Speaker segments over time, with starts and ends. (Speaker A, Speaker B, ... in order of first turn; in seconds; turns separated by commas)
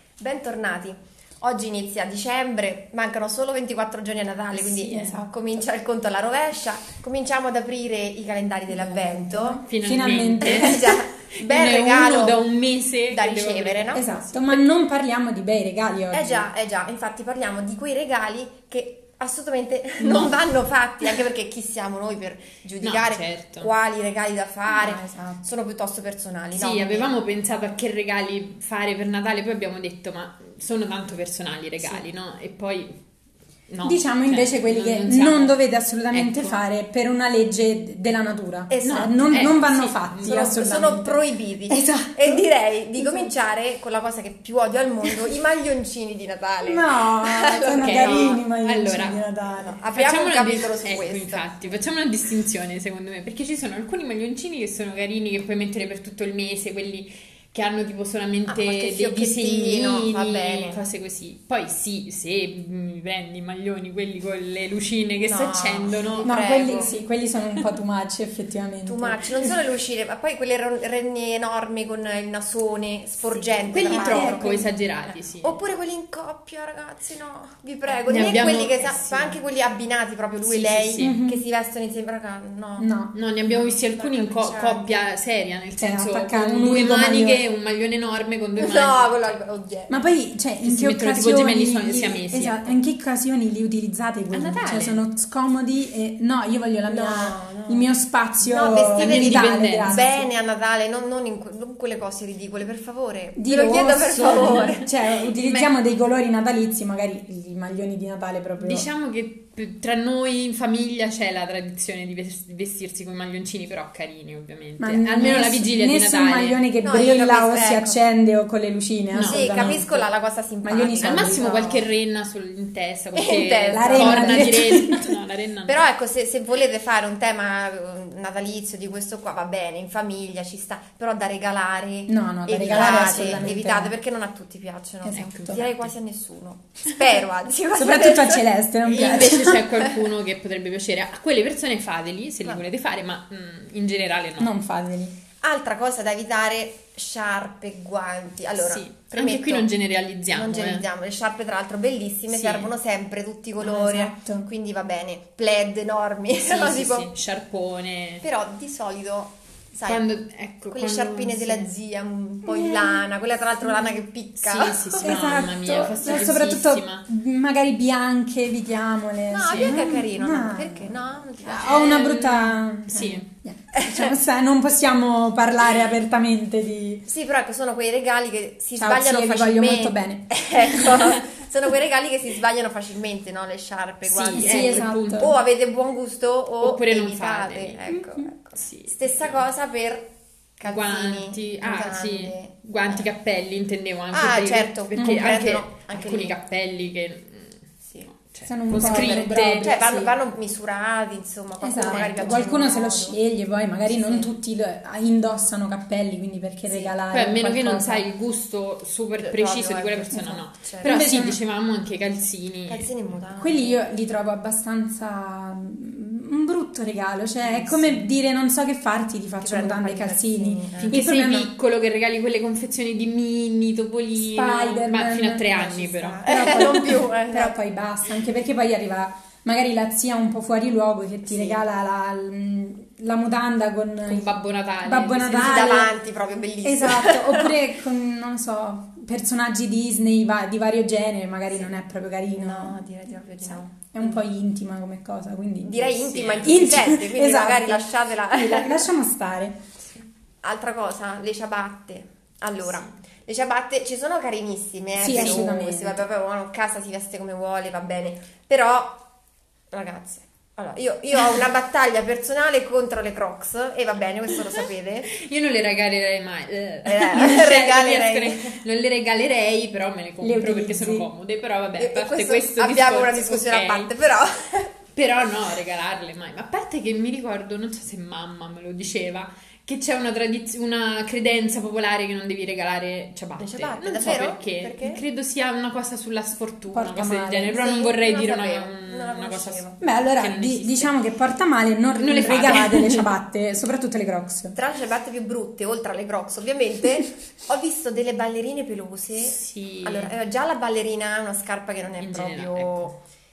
Speaker A: 0.2-9.6, Speaker B: 4.5-5.2, Speaker C: 4.6-5.2, Speaker C: 8.7-10.8, Speaker B: 9.7-14.1, Speaker A: 10.4-12.4, Speaker A: 13.1-14.6, Speaker C: 13.9-16.5, Speaker A: 16.1-27.1, Speaker B: 20.0-20.4, Speaker B: 22.8-23.7, Speaker C: 24.7-25.4, Speaker B: 26.5-32.9, Speaker B: 33.7-35.6, Speaker C: 33.8-43.3, Speaker B: 36.1-36.6, Speaker A: 38.7-39.3, Speaker B: 38.8-40.5, Speaker A: 40.2-48.4, Speaker C: 46.6-49.8, Speaker B: 47.8-49.2, Speaker A: 49.5-51.8, Speaker B: 49.9-67.0, Speaker A: 58.5-60.8, Speaker A: 65.2-66.9, Speaker C: 66.2-69.6, Speaker A: 68.8-82.9, Speaker B: 73.7-75.6, Speaker C: 73.8-74.7, Speaker B: 78.0-79.4, Speaker B: 80.4-81.2, Speaker C: 81.0-81.4, Speaker C: 82.8-83.1, Speaker B: 83.1-89.4, Speaker A: 83.5-84.9, Speaker C: 85.8-87.4, Speaker A: 88.6-90.1, Speaker C: 89.9-100.3, Speaker B: 90.6-92.8, Speaker B: 94.3-95.0, Speaker A: 96.9-104.9, Speaker B: 99.0-100.0, Speaker C: 103.3-108.9, Speaker B: 104.2-104.8, Speaker B: 105.4-105.8, Speaker B: 108.6-116.6, Speaker C: 114.8-120.1, Speaker A: 116.8-118.0, Speaker B: 119.1-119.8, Speaker A: 119.2-121.8, Speaker C: 120.6-121.5, Speaker B: 121.0-125.8, Speaker A: 123.1-124.6, Speaker C: 123.7-125.1, Speaker A: 125.7-138.4, Speaker C: 132.1-133.9, Speaker B: 132.6-133.5, Speaker C: 135.0-135.6, Speaker B: 135.1-135.9, Speaker C: 137.8-139.6, Speaker B: 138.8-144.5, Speaker C: 144.4-145.1, Speaker A: 145.4-149.7, Speaker B: 148.6-150.8, Speaker A: 150.3-157.1, Speaker B: 152.3-152.7, Speaker C: 153.6-154.5, Speaker B: 156.3-158.2, Speaker A: 158.2-160.1, Speaker B: 159.8-161.7, Speaker A: 160.7-165.3, Speaker C: 162.4-163.0, Speaker C: 163.6-163.9, Speaker B: 164.4-167.0, Speaker C: 165.0-177.0, Speaker A: 169.3-172.0, Speaker B: 171.5-173.3, Speaker A: 173.7-174.1, Speaker A: 177.1-193.1, Speaker C: 178.8-180.8, Speaker B: 184.0-185.4, Speaker C: 184.3-185.3, Speaker B: 186.6-187.8, Speaker C: 187.9-188.3, Speaker B: 188.6-189.4, Speaker B: 190.6-197.6, Speaker A: 194.1-196.4, Speaker C: 194.9-195.3, Speaker A: 197.8-198.1, Speaker B: 198.1-199.8, Speaker C: 198.4-200.1, Speaker A: 198.8-203.2, Speaker C: 201.6-208.1, Speaker B: 201.8-202.6, Speaker A: 203.8-204.3, Speaker A: 206.7-206.9, Speaker B: 207.1-212.9, Speaker A: 209.2-211.0, Speaker C: 210.1-211.4, Speaker A: 212.7-213.8, Speaker C: 213.3-221.5, Speaker B: 217.6-218.0, Speaker A: 219.4-221.0, Speaker B: 220.8-226.9, Speaker C: 224.2-225.5, Speaker A: 225.5-227.6, Speaker C: 226.2-235.9, Speaker A: 231.2-231.6, Speaker B: 234.0-235.7, Speaker A: 235.3-237.6, Speaker C: 236.6-242.8, Speaker A: 242.3-244.2, Speaker C: 243.4-249.6, Speaker A: 245.6-248.9, Speaker B: 246.1-246.8, Speaker A: 250.4-259.0, Speaker B: 252.6-252.9, Speaker C: 254.9-256.1, Speaker B: 255.1-255.4, Speaker A: 259.7-265.1, Speaker B: 265.1-273.9, Speaker A: 266.9-268.6, Speaker C: 270.2-271.1, Speaker A: 271.8-274.7, Speaker B: 274.9-290.9, Speaker A: 283.4-285.0, Speaker C: 286.7-287.6, Speaker A: 287.5-289.8, Speaker C: 289.8-294.6, Speaker B: 291.9-293.1, Speaker A: 294.5-302.9, Speaker B: 299.2-300.1, Speaker B: 302.0-302.9